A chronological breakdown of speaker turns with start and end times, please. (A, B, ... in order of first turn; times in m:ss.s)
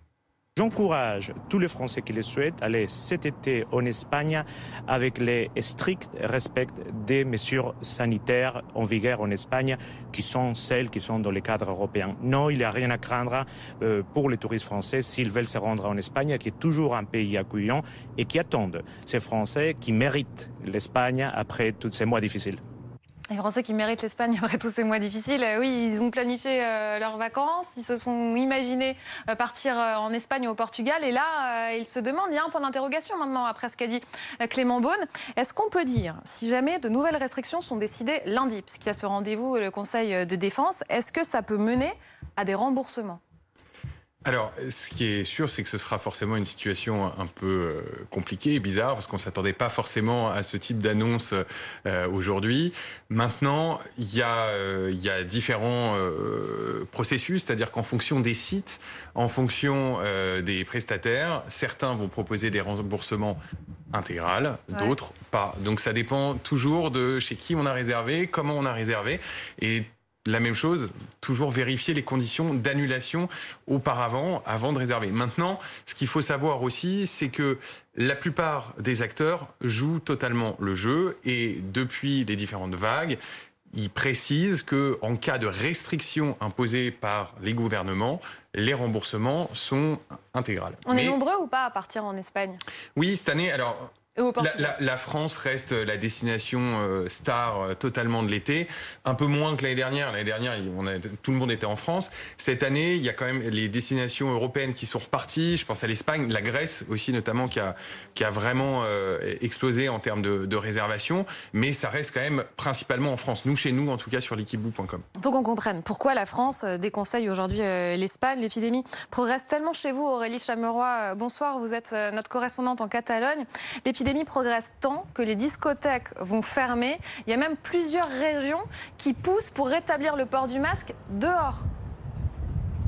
0:00.6-0:22.6 A
0:23.3-0:43.2 B
0:44.2-1:03.4 C
1:03.9-1:23.2 C
1:04.7-1:05.0 B
1:23.7-1:31.2 C
1:30.8-1:32.6 B
1:33.0-1:55.0 C
1:34.1-1:34.8 B
1:55.2-2:11.7 B